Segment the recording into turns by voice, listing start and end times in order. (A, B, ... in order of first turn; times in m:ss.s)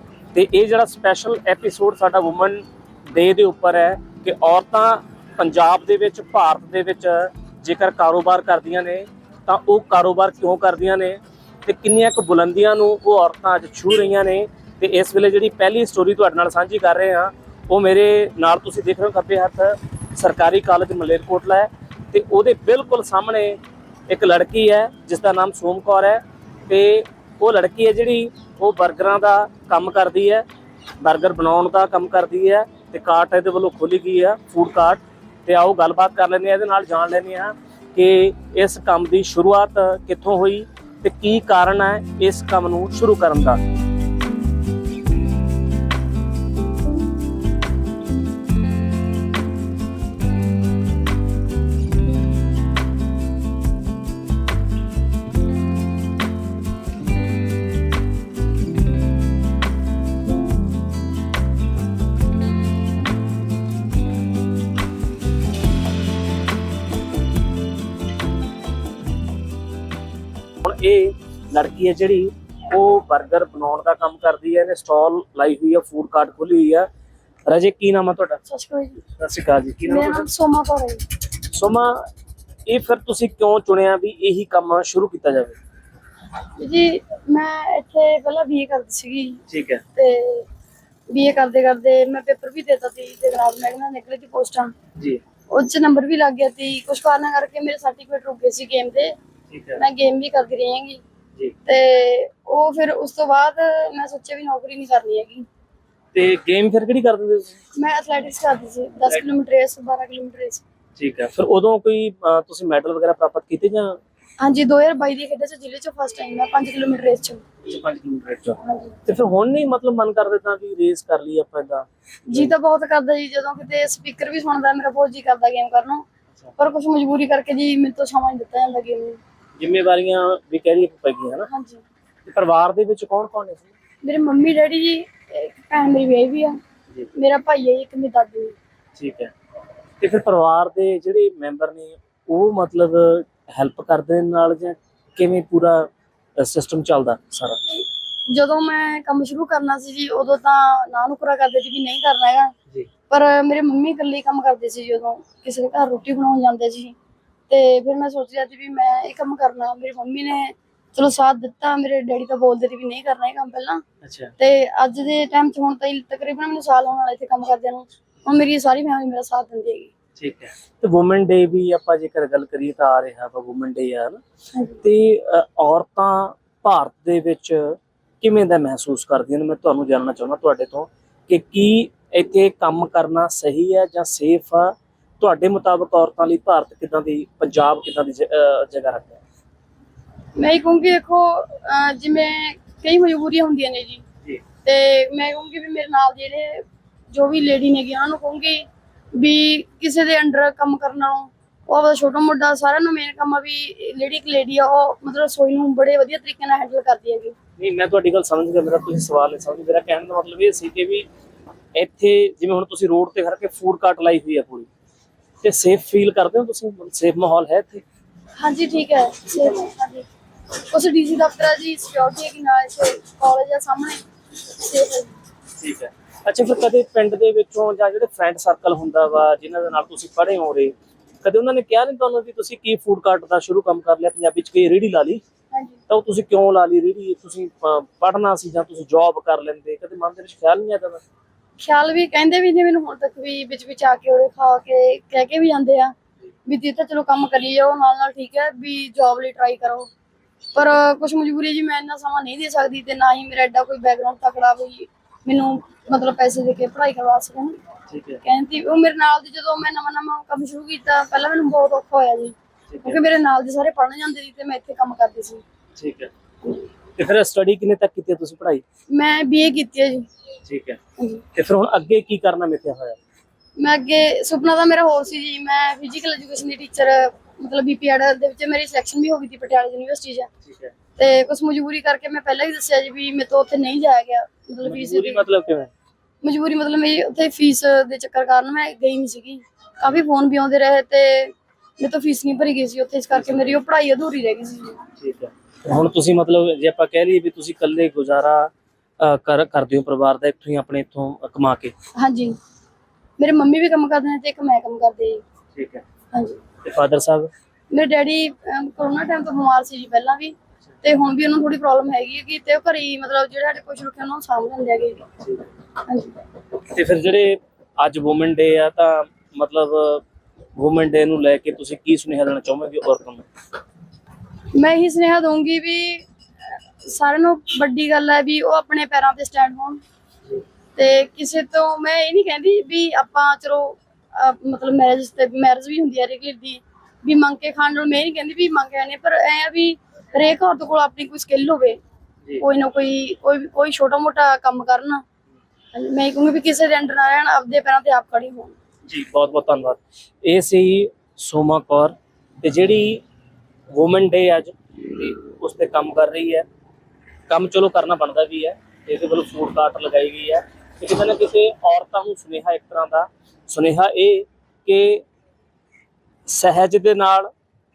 0:00.3-0:30.4 A
0:31.0-0:43.6 A
1:10.6-1:16.9 A
1:17.5-1:18.4 A
1:18.4-1:19.0 B
1:19.2-1:20.3 A
1:19.8-1:21.0 B
1:21.5-1:22.0 A
1:22.7-1:25.6 A
1:26.6-1:29.4 B
1:29.5-1:29.8 A
1:30.0-1:30.5 B
1:31.1-1:34.7 B
1:35.0-1:35.2 A
1:35.5-1:39.2 B
1:39.5-1:39.8 A
1:39.8-1:41.0 B
1:41.6-1:45.4 B
1:46.1-1:47.5 A
1:47.8-1:50.6 B
1:51.0-1:54.0 A
1:54.4-1:57.4 B
1:57.6-2:02.5 A
1:58.6-1:58.9 B
2:02.3-2:06.0 B
2:06.6-2:09.2 B
2:09.6-2:11.5 A
2:11.5-2:11.8 B
2:12.2-2:13.7 A
2:14.0-2:16.6 B
2:17.1-2:18.6 B
2:19.0-2:19.3 A
2:20.0-2:27.8 A
2:28.3-2:32.5 B
2:33.1-2:36.9 B
2:37.5-2:43.8 B
2:44.0-2:44.3 A
2:44.4-2:49.9 B
2:50.2-2:54.2 A
2:54.8-3:09.2 A
3:10.4-3:14.0 B
3:14.6-3:27.3 B
3:27.6-3:31.0 A
3:31.7-3:34.7 A
3:35.4-3:37.8 A
3:38.4-3:40.1 B
3:40.7-3:45.2 B
3:45.6-3:55.2 A
3:55.5-3:55.8 B
3:55.9-4:01.0 A
4:01.6-4:05.9 B
4:06.4-4:09.9 B
4:10.5-4:17.6 B
4:17.9-4:18.2 A
4:18.2-4:25.4 B
4:22.7-4:23.0 A
4:25.8-4:26.1 A
4:27.0-4:28.6 A
4:28.9-4:30.1 B
4:30.4-4:30.8 A
4:31.0-4:31.2 B
4:31.3-4:33.0 A
4:33.6-4:40.3 B
4:40.4-4:40.7 A
4:41.0-4:45.2 B
4:44.6-4:45.7 A
4:46.2-4:54.8 B
4:53.1-4:53.6 A
4:55.0-5:01.7 A
5:02.0-5:02.4 B
5:03.2-5:05.2 B
5:05.5-5:05.8 A
5:06.1-5:06.4 B
5:06.6-5:07.3 A
5:07.7-5:15.0 B
5:15.9-5:16.1 B
5:16.7-5:20.0 A
5:20.6-5:23.2 A
5:24.5-5:26.0 B
5:26.8-5:29.8 B
5:30.8-5:41.8 B
5:42.4-5:45.0 B
5:45.7-5:48.5 B
5:48.9-5:53.0 A
5:53.7-5:56.4 A
5:57.3-6:05.0 A
6:06.2-6:07.3 A